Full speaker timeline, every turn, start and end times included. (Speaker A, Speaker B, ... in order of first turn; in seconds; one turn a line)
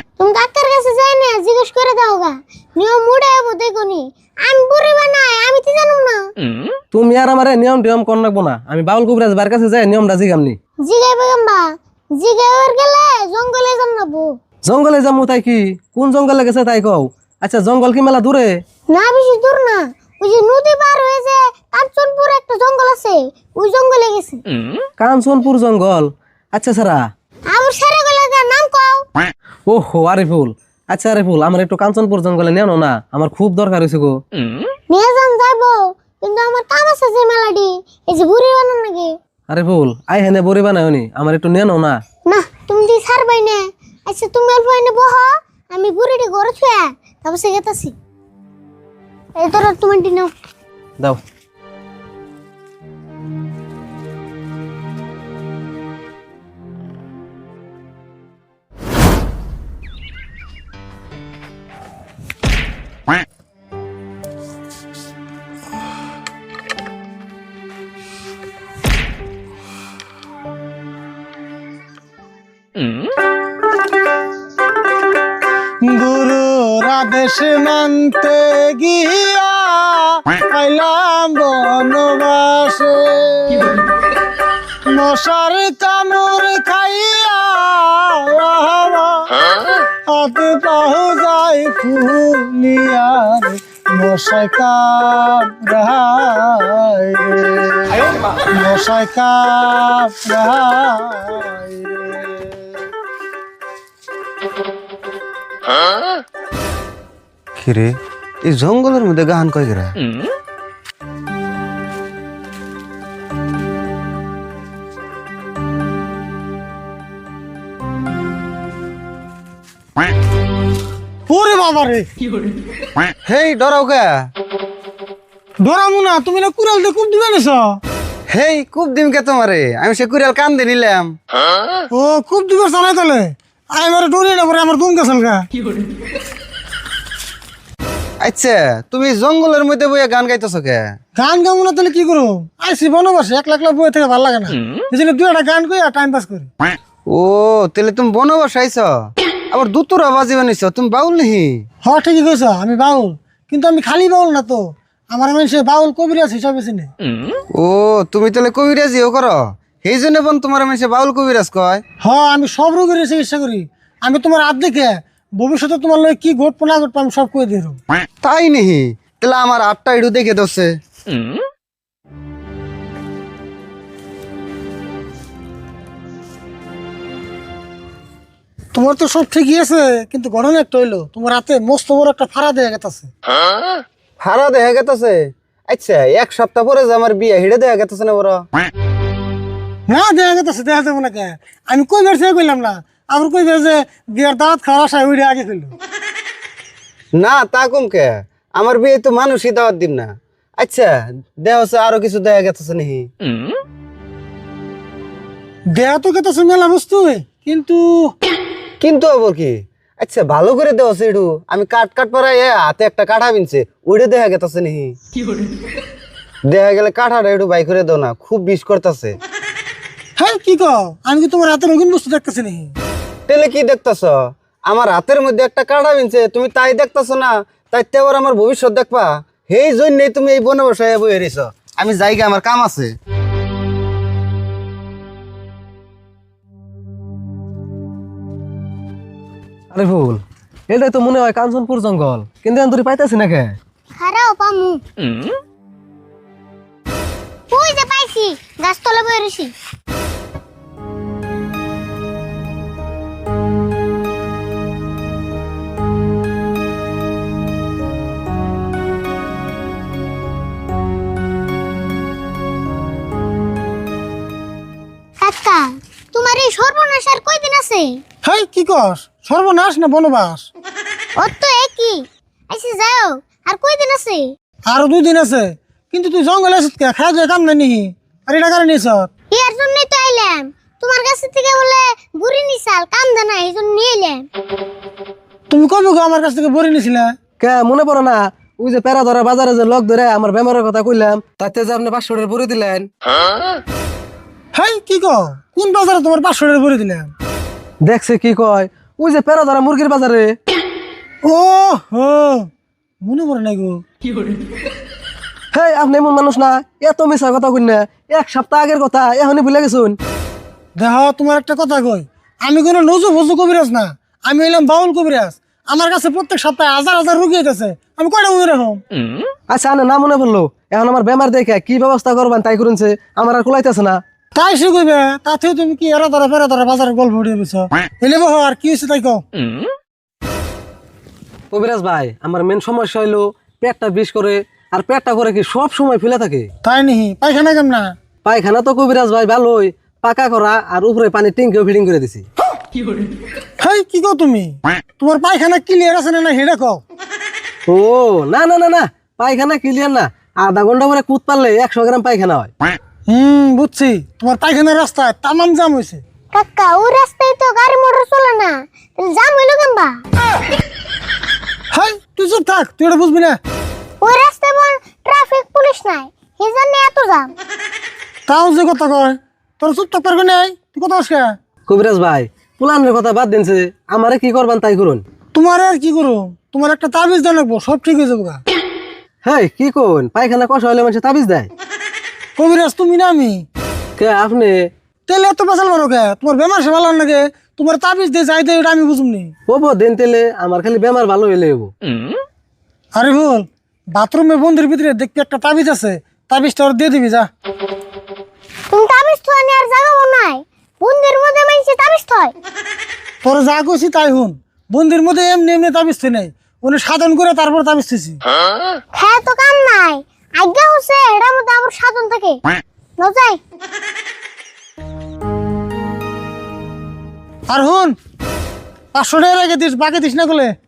Speaker A: 0.2-6.2
Speaker B: 6.9-10.6
Speaker A: 10.8-14.3
Speaker B: 14.6-18.6
Speaker A: 18.9-24.4
Speaker B: 25.0-27.0
Speaker A: 27.5-29.0
Speaker B: 29.7-34.2
Speaker A: 34.9-39.1
Speaker B: 39.5-42.0
Speaker A: 42.3-47.9
Speaker A: 49.4-50.3
Speaker C: 75.8-83.8
Speaker C: 84.9-102.5
Speaker D: 107.6-110.0
Speaker C: 121.3-122.1
Speaker D: 123.2-124.2
Speaker C: 125.6-127.8
Speaker D: 128.3-131.1
Speaker C: 131.9-135.5
Speaker D: 138.2-140.9
Speaker C: 141.2-146.5
Speaker D: 147.1-149.0
Speaker D: 149.5-151.6
Speaker C: 151.8-156.9
Speaker D: 157.5-161.8
Speaker C: 162.0-167.8
Speaker D: 168.2-170.7
Speaker C: 178.7-183.1
Speaker D: 184.2-188.4
Speaker C: 189.9-195.7
Speaker D: 197.2-203.1
Speaker C: 205.7-208.1
Speaker D: 208.8-214.9
Speaker D: 216.5-219.2
Speaker C: 220.2-222.7
Speaker D: 223.3-232.9
Speaker B: 239.7-243.6
Speaker A: 244.0-244.8
Speaker A: 247.5-249.5
Speaker A: 265.2-268.0
Speaker C: 268.2-270.5
Speaker A: 271.2-274.3
Speaker C: 274.7-279.1
Speaker A: 279.3-284.2
Speaker C: 285.5-287.1
Speaker B: 287.4-292.9
Speaker C: 294.5-297.1
Speaker B: 297.8-300.3
Speaker C: 301.2-302.5
Speaker C: 303.0-303.8
Speaker B: 305.5-310.0
Speaker C: 310.8-318.8
Speaker B: 319.5-324.0
Speaker C: 324.3-329.2
Speaker B: 331.5-336.5
Speaker C: 336.6-337.9
Speaker B: 338.2-342.2
Speaker C: 343.6-346.8
Speaker B: 347.7-352.5
Speaker C: 353.1-356.0
Speaker A: 356.3-360.0
Speaker C: 361.7-363.4
Speaker A: 364.0-367.3
Speaker C: 368.3-371.3
Speaker B: 371.7-375.0
Speaker C: 375.3-378.4
Speaker B: 379.2-381.5
Speaker C: 382.4-383.4
Speaker B: 384.0-384.7
Speaker C: 385.1-389.3
Speaker B: 389.5-391.7
Speaker C: 392.9-397.3
Speaker A: 398.7-402.3
Speaker C: 403.2-408.2
Speaker A: 408.9-412.4
Speaker A: 413.0-413.4
Speaker C: 417.5-417.9
Speaker C: 418.9-420.5